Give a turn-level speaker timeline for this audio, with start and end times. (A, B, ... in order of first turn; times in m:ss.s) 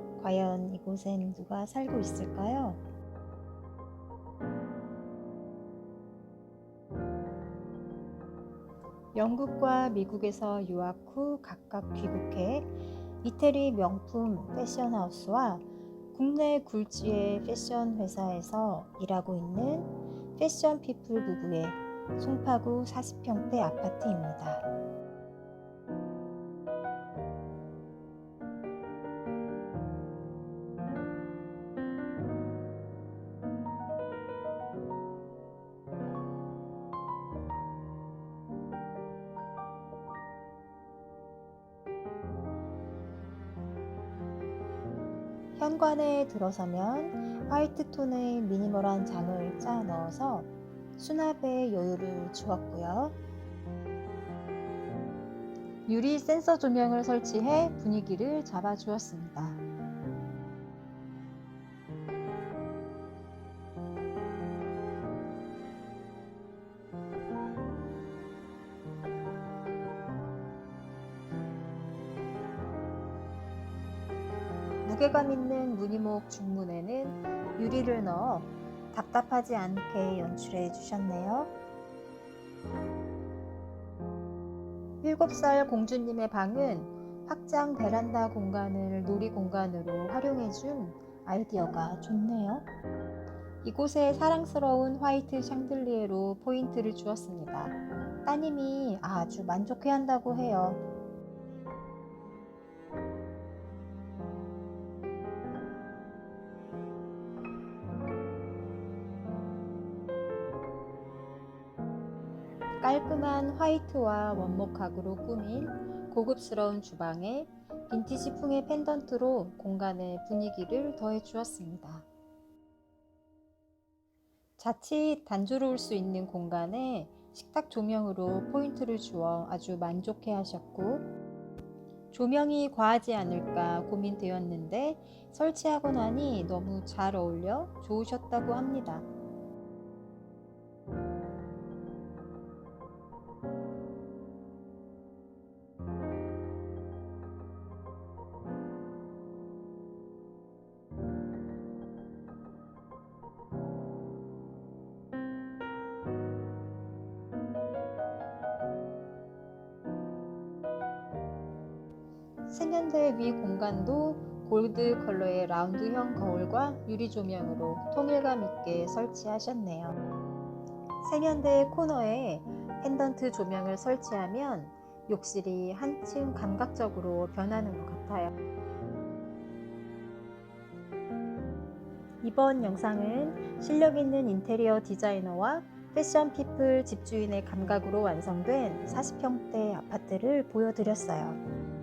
0:00.2-0:02.8 A
0:09.1-0:12.7 A
0:13.2-0:24.6 A
0:45.6-0:53.2 A
0:55.9-0:59.6 A
1:14.8-1:21.5 A
1:25.0-1:32.7 A
1:33.6-1:40.8 A
1:52.8-2:02.0 A
2:04.6-2:11.0 A
2:12.1-2:19.1 A
2:42.5-2:49.9 A
2:51.0-2:58.3 A
3:02.2-3:11.4 A